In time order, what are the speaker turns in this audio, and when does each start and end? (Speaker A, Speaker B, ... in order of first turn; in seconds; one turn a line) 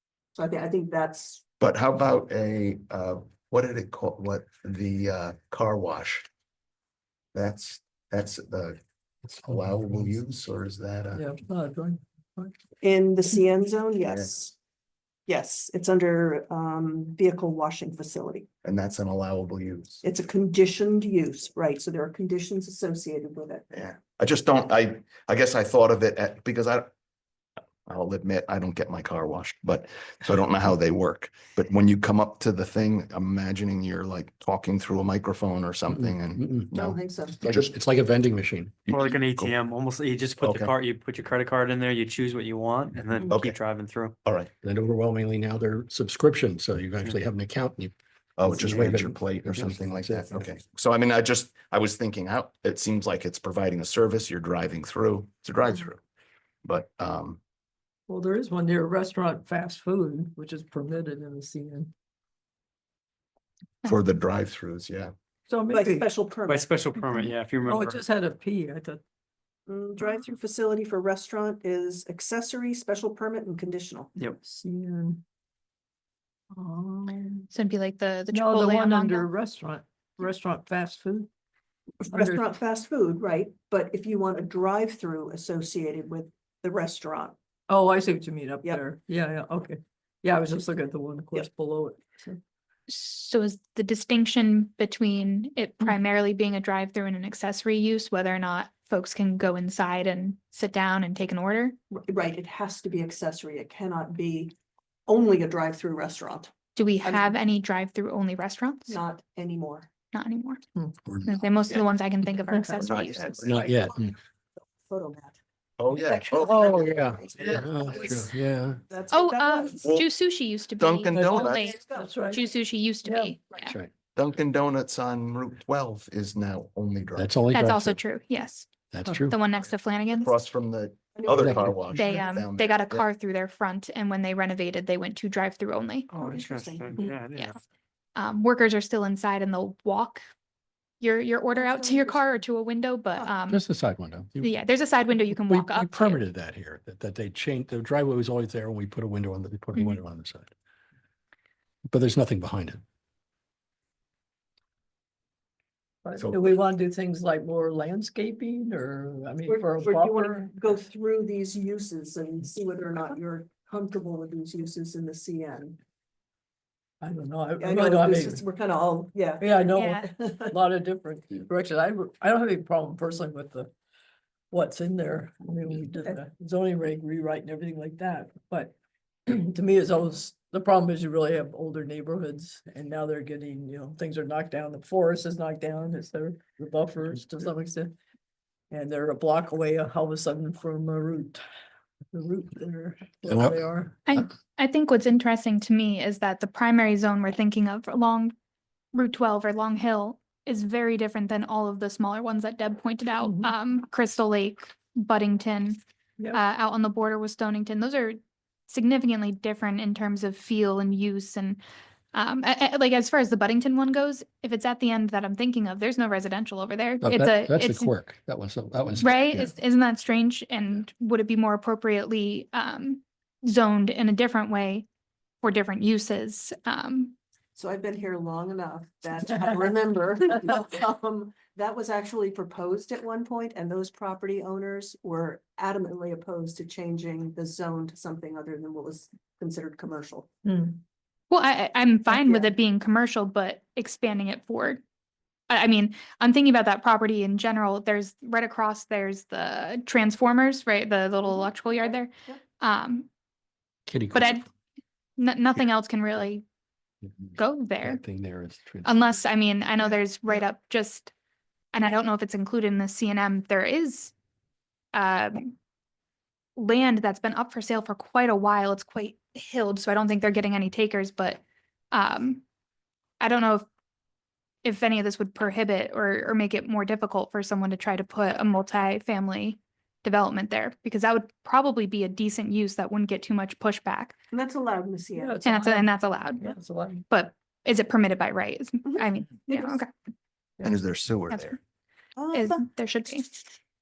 Speaker A: 0.3-1.4
Speaker B: 1.6-6.2
Speaker B: 7.3-8.8
Speaker C: 9.3-10.1
Speaker B: 9.4-11.2
Speaker D: 11.1-12.6
Speaker A: 12.8-14.5
Speaker B: 14.0-14.3
Speaker A: 15.3-18.5
Speaker B: 18.6-20.0
Speaker A: 20.0-23.6
Speaker B: 23.7-26.9
Speaker B: 27.8-37.7
Speaker C: 35.9-36.7
Speaker A: 36.7-37.4
Speaker C: 37.4-38.9
Speaker B: 38.9-39.5
Speaker E: 38.9-44.1
Speaker B: 40.4-40.7
Speaker B: 43.3-43.6
Speaker B: 44.2-44.5
Speaker C: 44.6-50.5
Speaker B: 48.4-56.0
Speaker B: 56.6-57.4
Speaker D: 58.1-61.9
Speaker B: 63.8-65.1
Speaker D: 65.5-66.1
Speaker A: 65.7-66.7
Speaker E: 66.5-68.0
Speaker F: 67.0-67.3
Speaker D: 67.6-69.0
Speaker A: 69.7-74.1
Speaker D: 74.4-75.2
Speaker D: 76.5-77.5
Speaker F: 77.5-79.3
Speaker D: 78.3-81.3
Speaker A: 82.0-87.3
Speaker D: 82.1-82.4
Speaker D: 87.7-92.4
Speaker F: 92.9-101.8
Speaker A: 101.9-104.5
Speaker A: 105.1-106.5
Speaker F: 106.8-109.0
Speaker A: 107.0-107.3
Speaker A: 108.9-109.9
Speaker F: 110.1-110.6
Speaker C: 111.0-111.3
Speaker F: 111.2-113.5
Speaker D: 112.5-112.8
Speaker B: 112.8-113.5
Speaker C: 113.4-114.1
Speaker A: 114.6-115.4
Speaker B: 115.8-116.8
Speaker A: 115.9-118.2
Speaker C: 116.4-118.8
Speaker A: 118.9-119.8
Speaker F: 119.1-123.7
Speaker B: 119.8-120.1
Speaker B: 120.8-121.7
Speaker D: 121.1-122.5
Speaker A: 121.7-122.1
Speaker D: 123.0-123.4
Speaker C: 123.5-123.9
Speaker B: 124.1-127.3
Speaker C: 127.2-128.0
Speaker F: 127.5-130.3
Speaker C: 128.9-129.4
Speaker B: 130.2-133.1
Speaker A: 131.2-131.7
Speaker C: 131.3-132.0
Speaker F: 131.9-136.3
Speaker A: 136.1-137.2
Speaker E: 136.2-137.5
Speaker F: 137.3-137.6
Speaker F: 138.2-140.2
Speaker F: 141.0-143.6
Speaker A: 141.5-142.4
Speaker C: 143.5-144.5
Speaker F: 144.4-146.2
Speaker C: 145.2-150.5
Speaker F: 149.7-150.0
Speaker C: 151.9-152.8
Speaker D: 156.0-160.5
Speaker B: 156.2-156.4
Speaker A: 159.5-165.8
Speaker D: 167.0-168.4
Speaker A: 167.6-170.5
Speaker D: 169.4-173.7
Speaker F: 169.7-170.1
Speaker D: 174.5-178.8
Speaker D: 179.3-188.0
Speaker D: 188.7-191.4
Speaker D: 192.1-194.3
Speaker C: 193.3-193.6
Speaker F: 194.1-198.3
Speaker F: 198.9-205.8
Speaker D: 203.2-203.5
Speaker F: 206.3-208.2
Speaker F: 208.7-211.6
Speaker F: 212.1-217.9
Speaker C: 217.0-219.5
Speaker F: 219.0-224.8
Speaker F: 225.4-227.1
Speaker A: 227.5-240.3
Speaker D: 240.4-240.8
Speaker F: 241.3-244.8
Speaker A: 242.1-242.5
Speaker F: 245.5-253.1
Speaker A: 251.3-252.4
Speaker C: 253.9-254.4
Speaker F: 254.1-254.4
Speaker F: 255.2-256.4
Speaker C: 257.1-259.0
Speaker F: 257.4-258.0
Speaker F: 258.8-261.1
Speaker F: 261.7-264.1
Speaker F: 264.9-265.5
Speaker F: 266.6-271.4
Speaker F: 271.9-272.4
Speaker F: 273.2-273.6
Speaker F: 274.6-284.2
Speaker A: 284.3-285.4
Speaker D: 285.1-287.1
Speaker F: 285.4-286.5
Speaker F: 287.1-289.9
Speaker A: 288.9-289.8
Speaker B: 290.6-291.6
Speaker F: 291.3-291.6
Speaker A: 292.1-292.6
Speaker F: 292.3-293.3